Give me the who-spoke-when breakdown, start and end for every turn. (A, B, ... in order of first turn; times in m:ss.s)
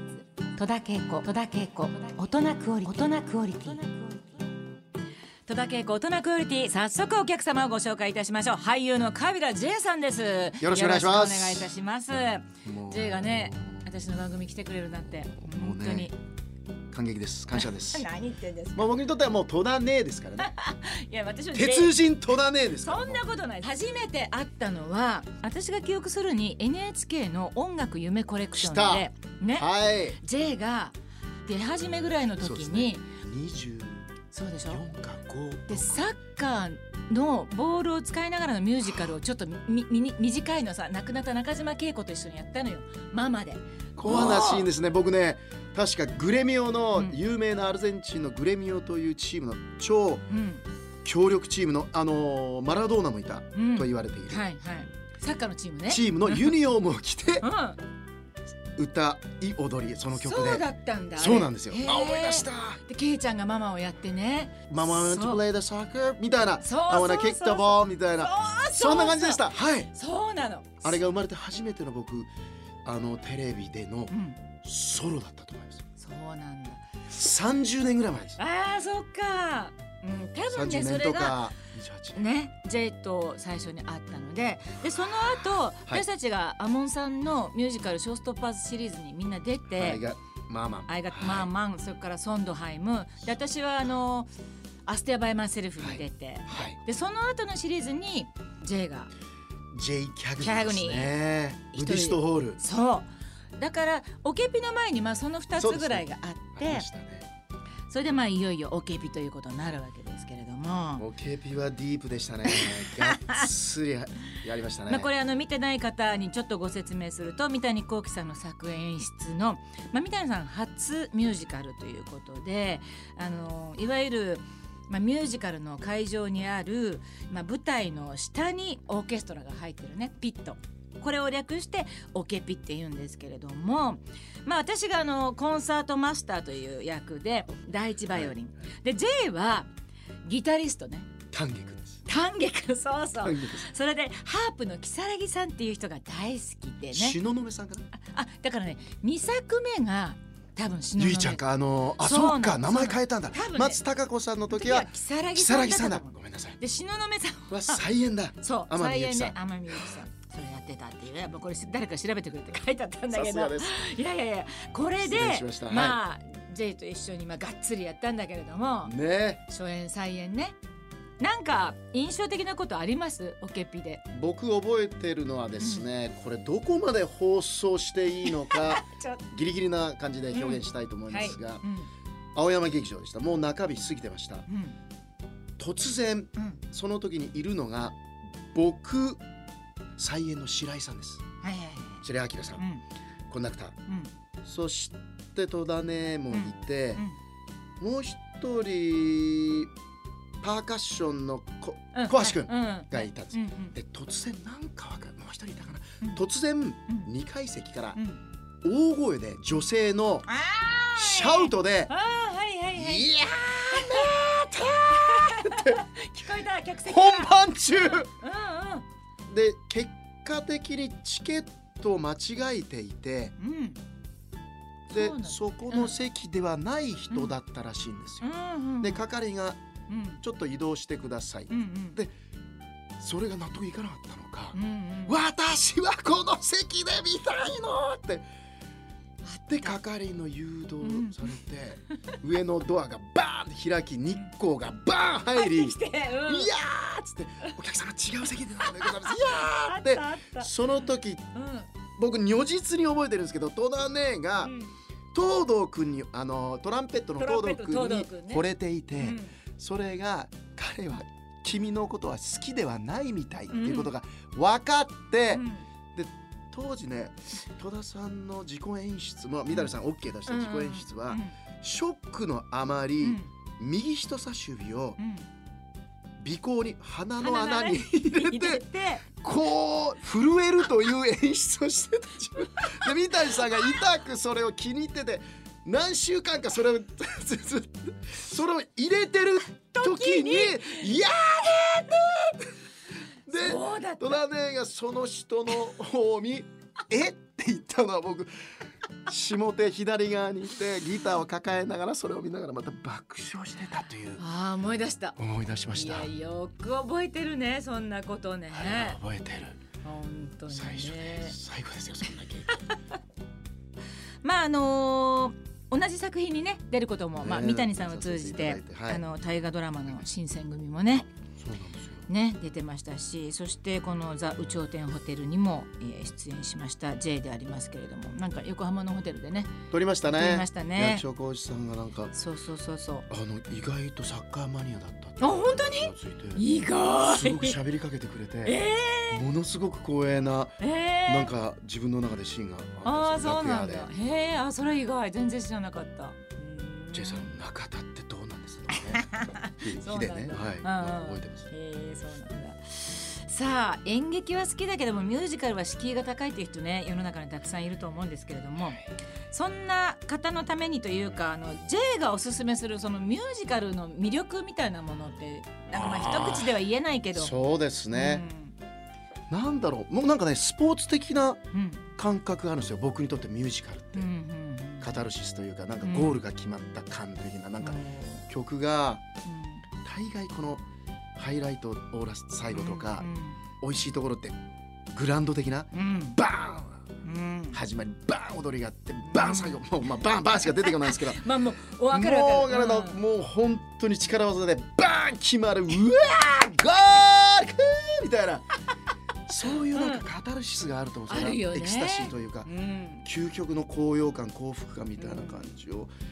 0:00.6-0:04.2 A
0:00.6-0:02.2 B
0:02.8-0:03.8 B
0:05.5-0:16.2 B
0:10.6-0:11.7 C
0:12.6-0:13.9 C
0:15.4-0:16.1 C
0:16.9-0:18.1 C
0:17.5-0:18.9 B
0:18.8-0:20.5 C
0:20.4-0:22.0 B
0:21.5-0:23.2 C
0:22.8-0:33.0 B
0:28.6-0:30.2 C
0:32.4-0:36.1 C
0:34.3-0:34.8 B
0:35.7-0:44.7 B
0:44.0-0:50.2 C
0:50.3-0:50.6 B
0:51.0-0:54.4 C
0:53.5-0:56.6 B
0:55.9-0:57.5 C
0:57.4-0:57.8 B
0:58.8-1:02.8 C
1:00.2-1:05.4 B
1:04.7-1:09.9 C
1:06.6-1:11.0 B
1:10.8-1:12.3 C
1:12.8-1:15.8 C
1:14.1-1:14.4 B
1:16.0-1:16.8 B
1:17.1-1:18.4 C
1:18.4-1:21.5 B
1:20.5-1:22.2 C
1:22.2-1:30.0 B
1:25.0-1:26.0 C
1:29.7-1:31.5 C
1:30.9-1:34.3 B
1:34.9-1:39.1 B
1:35.8-1:36.8 C
1:39.7-1:42.6 C
1:40.4-1:41.1 B
1:41.7-1:46.9 B
1:45.6-1:47.3 C
1:47.9-1:51.1 B
1:51.0-1:55.1 C
1:52.5-1:53.4 B
1:54.9-2:19.7 B
2:20.2-2:21.1 B
2:21.3-2:22.0 C
2:22.1-2:27.2 B
2:23.2-2:23.6 C
2:26.9-2:27.8 C
2:27.9-2:31.4 B
2:31.0-2:36.6 C
2:32.0-2:33.8 B
2:34.5-2:37.8 B
2:37.5-2:39.9 C
2:38.4-2:49.0 B
2:43.1-2:43.8 C
2:45.0-2:46.0 C
2:48.8-2:49.4 C
2:49.5-2:50.6 B
2:51.2-2:54.0 B
2:54.1-3:01.6 C
2:55.6-2:55.8 B
2:58.2-2:59.2 B
3:00.3-3:01.9 B
3:02.4-3:04.5 C
3:04.5-3:04.8 B
3:05.6-3:08.0 C
3:08.5-3:09.2 C
3:10.0-3:11.2 C
3:11.4-3:12.8 B
3:12.0-3:12.6 C
3:13.3-3:13.8 C
3:14.4-3:17.0 C
3:16.3-3:17.2 B
3:17.8-3:19.7 C
3:20.4-3:28.0 C
3:21.9-3:23.8 B
3:28.0-3:28.2 B
3:28.6-3:30.3 C
3:30.3-3:38.9 B
3:31.0-3:31.9 C
3:32.8-3:35.8 C
3:36.8-3:38.1 C
3:39.3-3:43.4 C
3:43.4-3:43.8 B
3:44.9-3:45.9 B
3:44.9-3:48.3 C
3:48.2-3:49.0 B
3:48.8-3:49.6 C
3:49.9-3:50.2 B
3:50.2-3:52.1 C
3:51.5-3:52.0 B
3:53.0-3:58.3 C
3:54.5-3:55.2 B
3:59.2-3:59.8 B
3:59.5-4:11.3 C
4:00.8-4:01.4 B
4:05.3-4:06.5 B
4:08.6-4:10.5 B
4:11.3-4:11.7 B
4:12.0-4:14.6 C
4:14.4-4:14.8 B
4:15.1-4:35.0 C
4:17.2-4:18.4 B
4:19.0-4:19.4 B
4:23.5-4:23.9 B
4:25.3-4:25.7 B
4:30.3-4:31.3 B
4:33.0-4:33.3 B
4:35.0-4:35.3 B
4:36.2-4:52.5 C
4:37.2-4:39.2 B
4:42.6-4:42.9 B
4:49.8-4:50.9 B
4:53.3-4:58.3 C
4:53.3-4:54.2 B
4:59.1-5:04.2 C
5:04.2-5:05.2 B
5:05.2-5:06.1 C
5:05.7-5:09.0 B
5:08.5-5:09.6 C
5:09.8-5:11.4 B
5:10.5-5:12.5 C
5:14.2-5:21.1 B
5:17.2-5:19.0 C
5:21.4-5:22.1 C
5:22.1-5:29.5 B
5:29.7-5:32.1 C
5:30.1-5:31.0 B
5:32.1-5:33.1 B
5:33.1-5:43.9 C
5:35.2-5:37.6 B
5:38.4-5:39.2 B
5:40.6-5:41.3 B
5:42.8-5:47.3 B
5:46.9-5:51.5 C
5:48.7-6:07.4 B
6:05.7-6:06.5 C
6:07.1-6:08.3 C
6:07.9-6:08.6 B
6:09.3-6:11.4 C
6:11.5-6:11.8 B
6:12.0-6:14.1 C
6:13.9-6:15.0 B
6:14.8-6:19.0 C
6:15.8-6:16.2 B
6:17.6-6:18.2 B
6:19.2-6:19.6 B
6:19.8-6:20.6 C
6:21.2-6:23.1 C
6:22.5-6:23.4 B
6:23.6-6:24.4 C
6:24.9-6:26.9 C
6:25.7-6:26.2 B
6:27.0-6:27.6 B
6:27.5-6:31.2 C
6:29.0-6:29.6 B
6:30.4-6:33.0 B
6:31.9-6:38.5 C
6:39.3-6:42.5 C
6:39.6-6:40.1 B
6:41.1-6:43.1 B
6:43.0-6:45.9 C
6:45.0-6:45.4 B